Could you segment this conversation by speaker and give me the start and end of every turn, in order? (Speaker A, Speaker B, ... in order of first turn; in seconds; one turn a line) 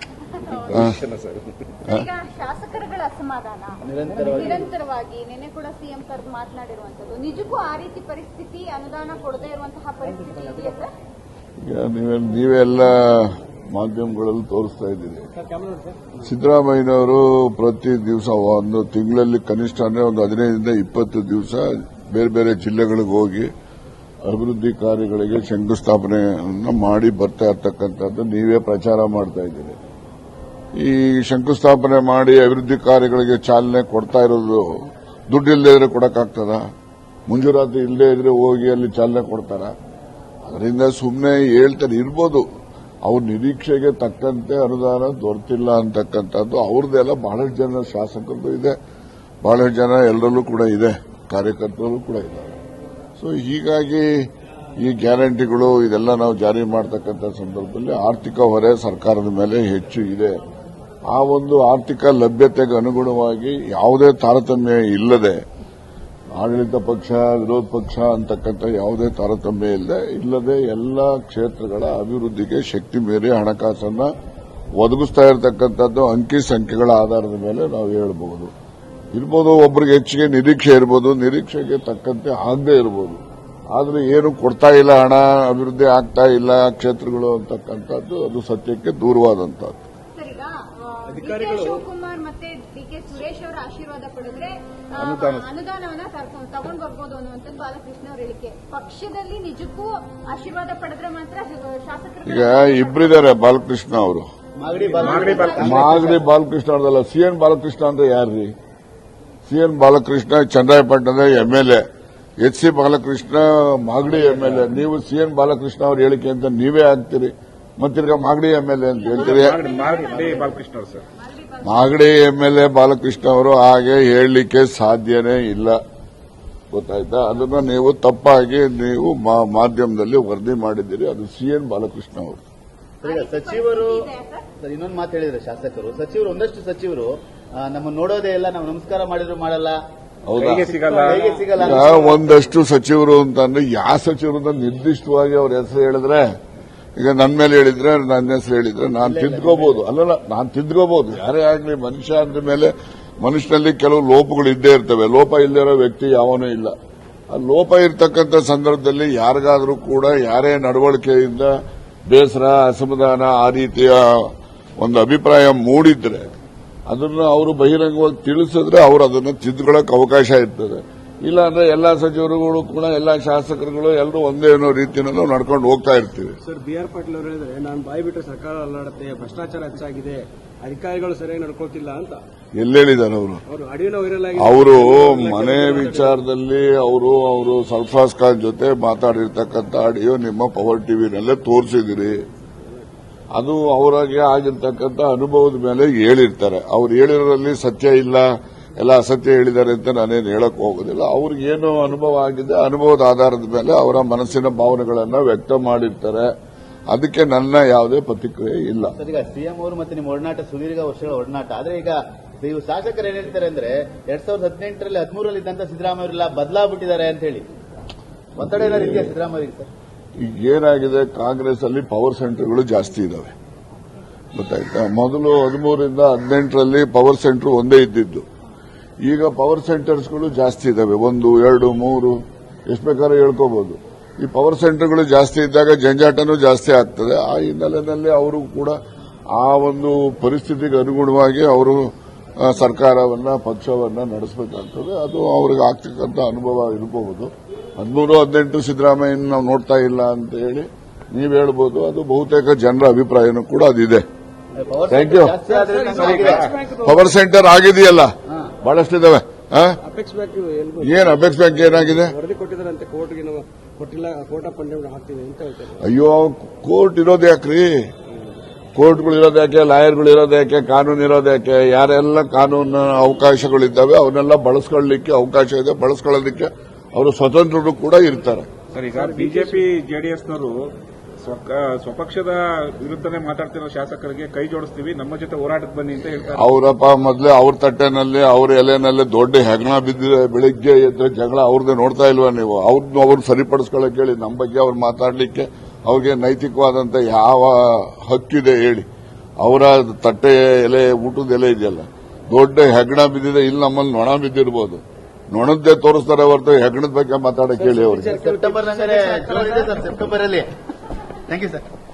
Speaker A: 0.4-0.8
Speaker B: 0.4-1.8
Speaker C: 0.7-1.0
Speaker A: 1.9-10.9
Speaker D: 3.9-4.7
Speaker C: 11.6-15.3
Speaker E: 15.3-16.2
Speaker C: 16.2-23.5
Speaker C: 24.2-29.8
Speaker C: 30.7-36.6
Speaker C: 37.3-39.7
Speaker C: 40.4-42.5
Speaker C: 43.0-48.8
Speaker C: 49.4-52.5
Speaker C: 53.1-54.3
Speaker C: 54.8-60.4
Speaker C: 61.1-65.4
Speaker C: 66.3-74.1
Speaker C: 74.8-78.5
Speaker C: 79.1-83.2
Speaker C: 83.7-89.8
Speaker A: 90.1-103.2
Speaker E: 91.1-91.8
Speaker B: 95.0-95.5
Speaker C: 102.2-104.2
Speaker D: 104.6-106.2
Speaker A: 104.9-106.0
Speaker B: 105.0-105.5
Speaker C: 105.5-108.5
Speaker C: 109.5-111.8
Speaker C: 112.4-119.6
Speaker A: 119.1-120.6
Speaker B: 119.1-121.0
Speaker A: 121.2-121.9
Speaker C: 121.6-125.8
Speaker C: 126.7-132.4
Speaker A: 133.0-134.5
Speaker D: 133.0-134.1
Speaker D: 134.6-139.8
Speaker C: 140.3-140.8
Speaker B: 140.3-141.4
Speaker D: 140.7-142.6
Speaker C: 141.6-146.3
Speaker C: 147.0-156.7
Speaker D: 149.0-149.8
Speaker C: 157.3-161.5
Speaker C: 162.1-166.3
Speaker C: 166.9-176.4
Speaker E: 176.4-182.2
Speaker C: 182.5-183.4
Speaker E: 183.5-186.2
Speaker C: 184.3-192.2
Speaker C: 193.3-206.3
Speaker C: 206.9-208.9
Speaker D: 208.9-217.4
Speaker D: 218.4-219.7
Speaker C: 218.5-219.1
Speaker C: 220.2-223.3
Speaker C: 224.3-228.2
Speaker C: 229.0-238.8
Speaker C: 239.3-241.9
Speaker C: 242.4-254.0
Speaker D: 254.6-256.5
Speaker C: 254.9-255.3
Speaker E: 255.5-257.0
Speaker B: 255.9-256.6
Speaker C: 256.8-259.8
Speaker E: 259.8-265.9
Speaker C: 260.8-262.1
Speaker C: 265.8-267.8
Speaker C: 268.8-278.5
Speaker B: 278.7-280.7
Speaker E: 278.9-279.6
Speaker B: 281.2-286.5
Speaker C: 286.3-298.9
Speaker C: 299.4-308.1
Speaker E: 307.6-309.8
Speaker D: 308.1-310.5
Speaker D: 311.3-311.6